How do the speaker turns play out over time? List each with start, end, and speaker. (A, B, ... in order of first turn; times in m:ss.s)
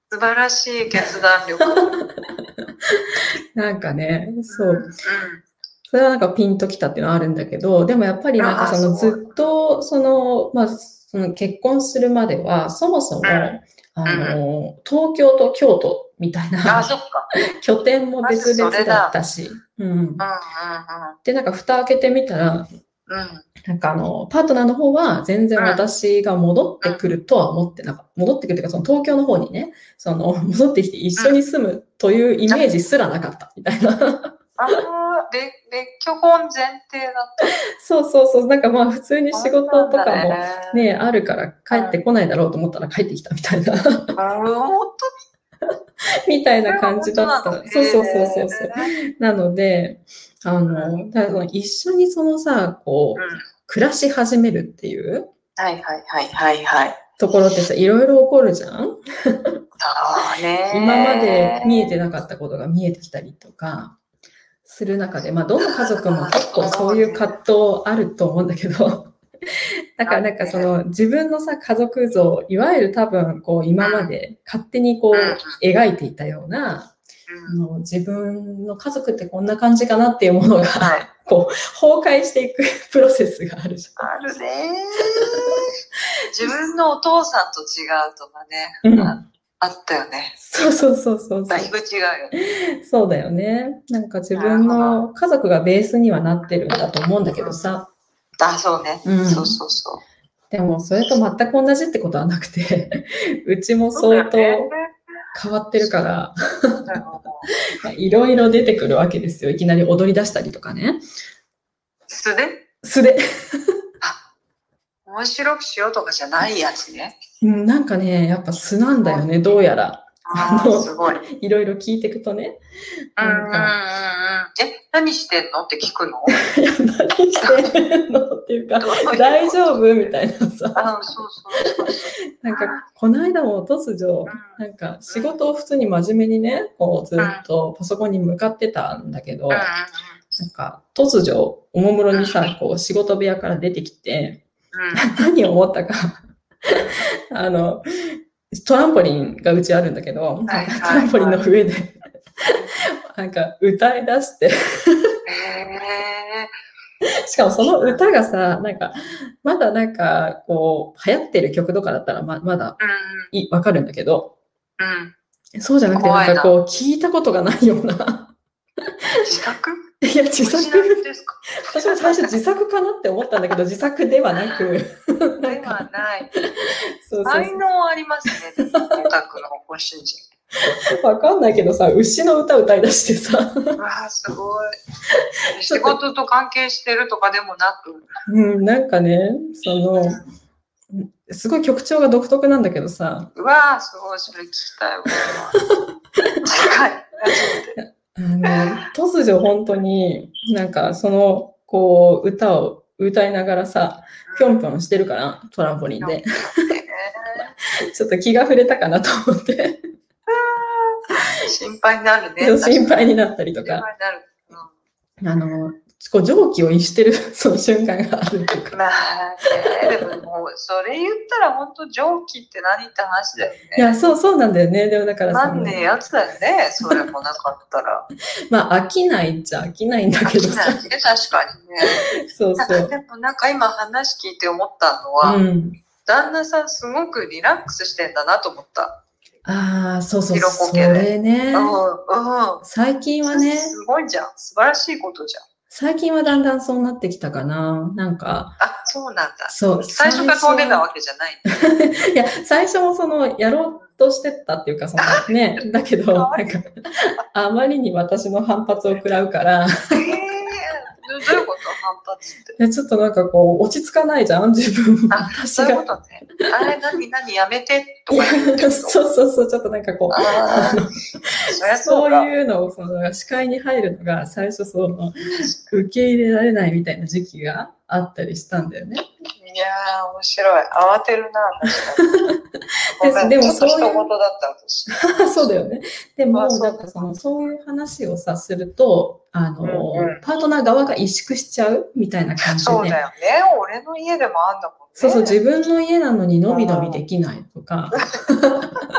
0:00.1-0:01.9 A
0:01.8-0:02.2 B
0:03.6-0:04.9 B
0:04.5-0:05.4 A
0:05.9-0:20.2 B
0:08.4-0:09.4 A
0:13.2-0:14.4 A
0:16.7-0:17.3 A
0:18.2-0:19.2 A
0:20.2-0:21.2 A
0:21.2-0:22.7 B
0:23.1-0:23.5 A
0:23.6-0:34.8 B
0:25.6-0:25.8 A
0:34.6-0:37.5 A
0:37.7-0:44.2 B
0:39.3-0:40.9 A
0:41.7-0:42.0 A
0:44.2-0:45.1 A
0:46.3-0:55.3 B
0:46.7-0:48.9 A
0:50.7-0:51.0 A
0:53.2-0:53.5 A
0:55.6-0:57.0 A
0:57.2-0:59.5 B
0:59.8-1:01.9 A
1:00.7-1:04.0 B
1:04.6-1:09.2 B
1:05.6-1:07.3 A
1:10.0-1:17.0 B
1:10.1-1:10.7 A
1:13.8-1:14.1 A
1:15.1-1:15.6 A
1:17.3-1:17.6 A
1:17.5-1:24.1 B
1:20.8-1:21.1 A
1:24.0-1:25.6 A
1:26.3-1:30.4 A
1:28.8-1:29.2 B
1:30.4-1:31.7 B
1:31.5-1:32.3 A
1:32.4-1:37.9 B
1:34.3-1:35.0 A
1:37.4-1:37.8 A
1:38.4-1:40.0 A
1:39.0-1:39.6 B
1:40.5-1:44.7 B
1:44.0-1:44.9 A
1:45.4-1:46.9 B
1:45.8-1:46.0 A
1:46.9-1:47.5 A
1:47.8-1:51.0 B
1:52.1-1:52.6 A
1:52.8-1:53.2 B
1:55.1-1:57.2 A
1:57.4-2:02.6 B
2:00.3-2:01.2 A
2:03.2-2:03.7 B
2:03.2-2:06.4 A
2:06.3-2:10.8 B
2:07.4-2:07.7 A
2:08.8-2:10.1 A
2:10.7-2:12.8 A
2:12.4-2:19.7 B
2:14.3-2:15.4 A
2:17.2-2:17.5 A
2:19.5-2:20.2 A
2:20.4-2:24.4 B
2:22.1-2:22.5 A
2:24.7-2:25.0 A
2:24.9-2:32.0 B
2:30.5-2:31.4 A
2:32.8-2:35.0 B
2:35.3-2:36.5 A
2:37.3-2:42.8 B
2:42.8-2:43.3 A
2:43.3-2:44.3 B
2:44.8-2:45.1 A
2:45.6-2:48.4 B
2:45.9-2:46.6 A
2:49.2-2:52.4 A
2:50.0-2:51.0 B
2:51.6-2:55.8 B
2:54.4-2:54.7 A
2:55.4-2:56.3 A
2:56.7-2:57.6 B
2:57.2-3:00.2 A
3:01.0-3:03.8 B
3:03.8-3:04.8 A
3:05.6-3:08.1 A
3:05.7-3:06.0 B
3:08.3-3:10.2 B
3:10.9-3:13.3 B
3:13.4-3:15.6 A
3:16.4-3:17.8 A
3:17.8-3:26.3 B
3:18.4-3:18.8 A
3:24.3-3:24.6 A
3:26.0-3:27.5 A
3:27.9-3:29.8 B
3:30.3-3:33.1 A
3:32.4-3:33.8 B
3:33.6-3:34.7 A
3:35.2-3:38.8 B
3:38.7-3:44.0 A
3:43.8-3:45.8 B
3:45.3-3:48.1 A
3:48.5-3:50.8 B
3:50.2-3:52.1 A
3:51.8-3:52.9 B
3:52.6-3:55.4 A
3:55.2-3:55.8 B
3:56.0-3:59.0 A
3:59.4-4:01.8 B
4:00.3-4:02.6 A
4:02.6-4:03.8 B
4:03.3-4:05.4 A
4:05.7-4:08.6 B
4:08.6-4:11.4 A
4:09.5-4:10.8 B
4:11.5-4:20.2 B
4:15.0-4:16.6 A
4:19.9-4:22.6 A
4:22.6-4:25.9 B
4:25.1-4:29.0 A
4:28.1-4:31.0 B
4:30.1-4:30.8 A
4:31.5-4:32.3 A
4:31.6-4:39.0 B
4:39.4-4:42.1 A
4:43.0-4:44.1 B
4:43.0-4:45.5 A
4:44.9-4:53.0 B
4:46.3-4:47.1 A
4:49.6-4:50.2 A
4:52.5-4:55.4 A
4:55.0-4:58.7 B
4:56.5-4:57.0 A